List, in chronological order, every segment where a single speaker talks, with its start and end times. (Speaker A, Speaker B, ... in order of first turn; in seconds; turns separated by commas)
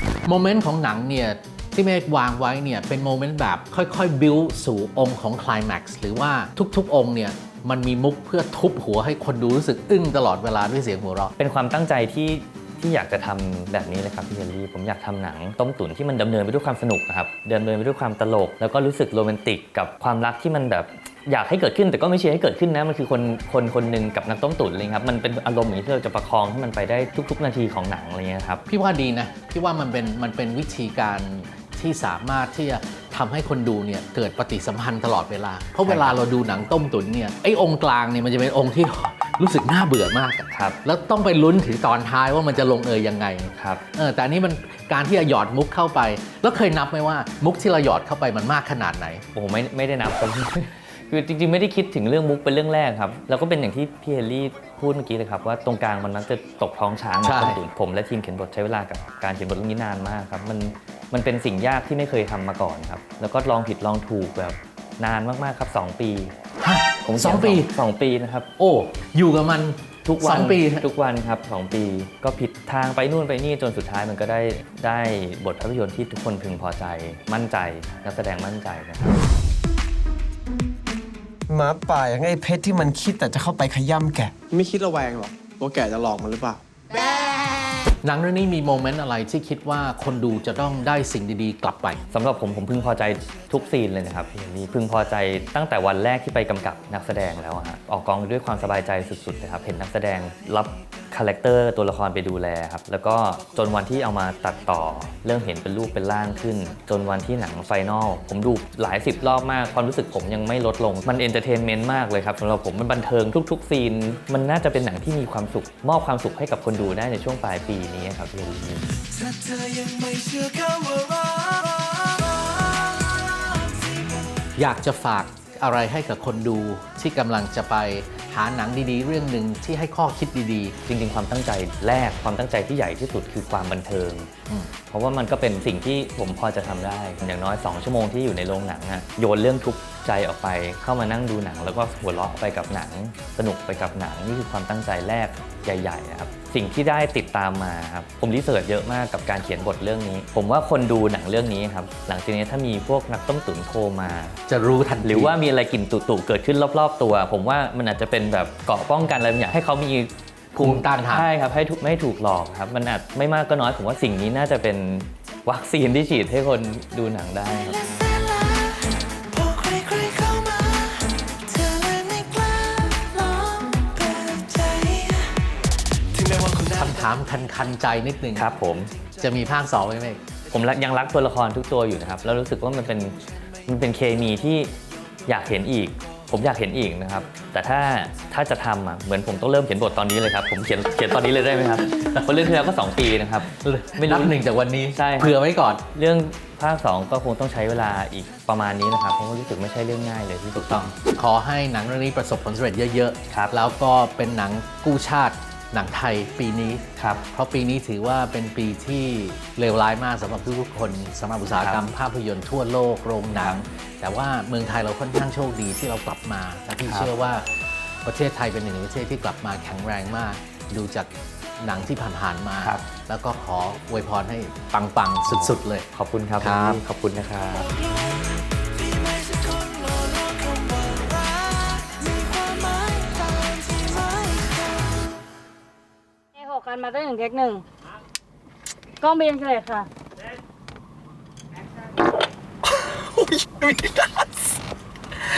Speaker A: 0.3-11.3, Speaker B: 11.4-28.6, Speaker A: 28.7-49.2, Speaker B: 35.9-36.2, Speaker B: 40.5-40.8, Speaker B: 43.5-43.8, Speaker B: 49.3-66.3, Speaker A: 57.2-57.6, Speaker A: 66.6-67.8, Speaker B: 67.0-68.5, Speaker A: 68.6-70.8, Speaker B: 70.0-79.2, Speaker C: 81.5-84.3, Speaker D: 84.5-86.6, Speaker A: 88.0-92.0, Speaker B: 92.1-118.8, Speaker E: 119.2-122.4, Speaker A: 124.6-130.8, Speaker B: 130.9-134.3, Speaker B: 134.9-154.4, Speaker A: 154.5-155.3, Speaker B: 155.0-168.0, Speaker A: 160.5-161.3, Speaker E: 168.0-175.3, Speaker E: 176.2-176.8, Speaker A: 176.8-178.5, Speaker B: 178.3-178.9, Speaker A: 179.2-180.2, Speaker B: 180.5-183.2, Speaker B: 183.7-184.7, Speaker B: 185.3-194.3, Speaker A: 193.6-195.8, Speaker B: 194.9-195.3, Speaker B: 195.9-200.9, Speaker A: 200.6-217.5, Speaker B: 207.0-207.2, Speaker B: 211.6-211.8, Speaker B: 213.3-213.6, Speaker A: 218.1-221.1, Speaker A: 221.6-225.9, Speaker B: 222.6-222.9, Speaker B: 225.3-227.7, Speaker A: 226.4-226.8, Speaker E: 229.1-231.2, Speaker E: 231.8-234.7, Speaker F: 236.4-237.6, Speaker F: 239.0-239.9, Speaker C: 243.4-243.8